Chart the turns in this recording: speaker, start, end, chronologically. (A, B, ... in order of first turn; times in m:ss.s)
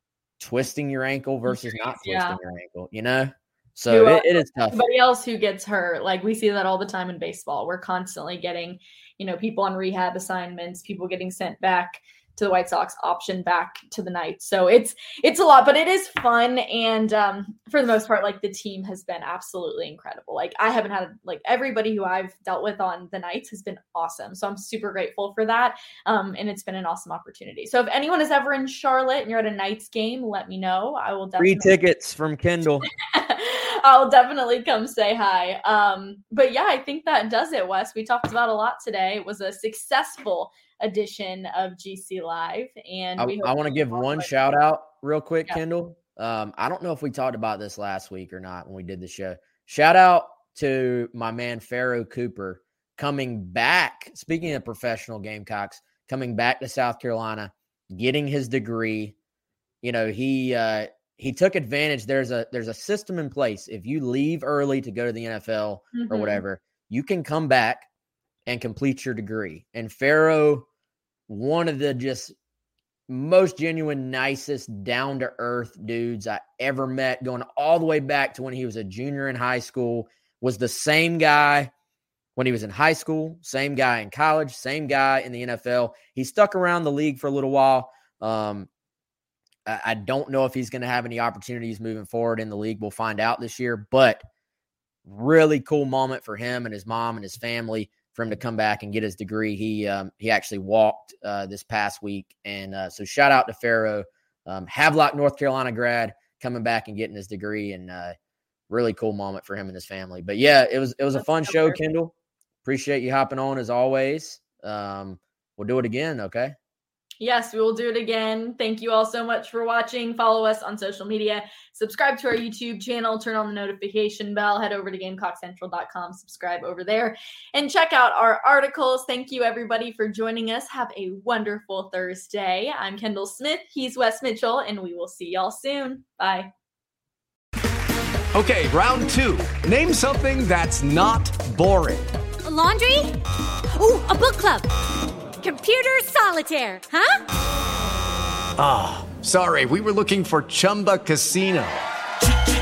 0:00.4-0:04.8 A
0:01.5-0:02.4 B
0:03.9-0:31.7 B
0:31.4-0:32.9 A
0:33.0-0:44.3 B
0:43.2-0:59.1 A
0:59.8-1:07.9 A
1:05.9-1:06.4 B
1:08.5-1:10.6 A
1:11.3-1:12.3 A
1:13.1-1:21.7 A
1:22.4-1:28.7 A
1:29.6-1:34.2 A
1:35.0-1:48.1 A
1:48.7-1:52.1 A
1:51.2-1:51.8 B
1:52.6-1:56.5 A
1:57.2-2:16.5 B
2:18.3-2:22.1 C
2:22.4-2:23.1 D
2:23.7-2:24.6 D
2:25.4-2:27.2 D
2:28.6-2:31.8 C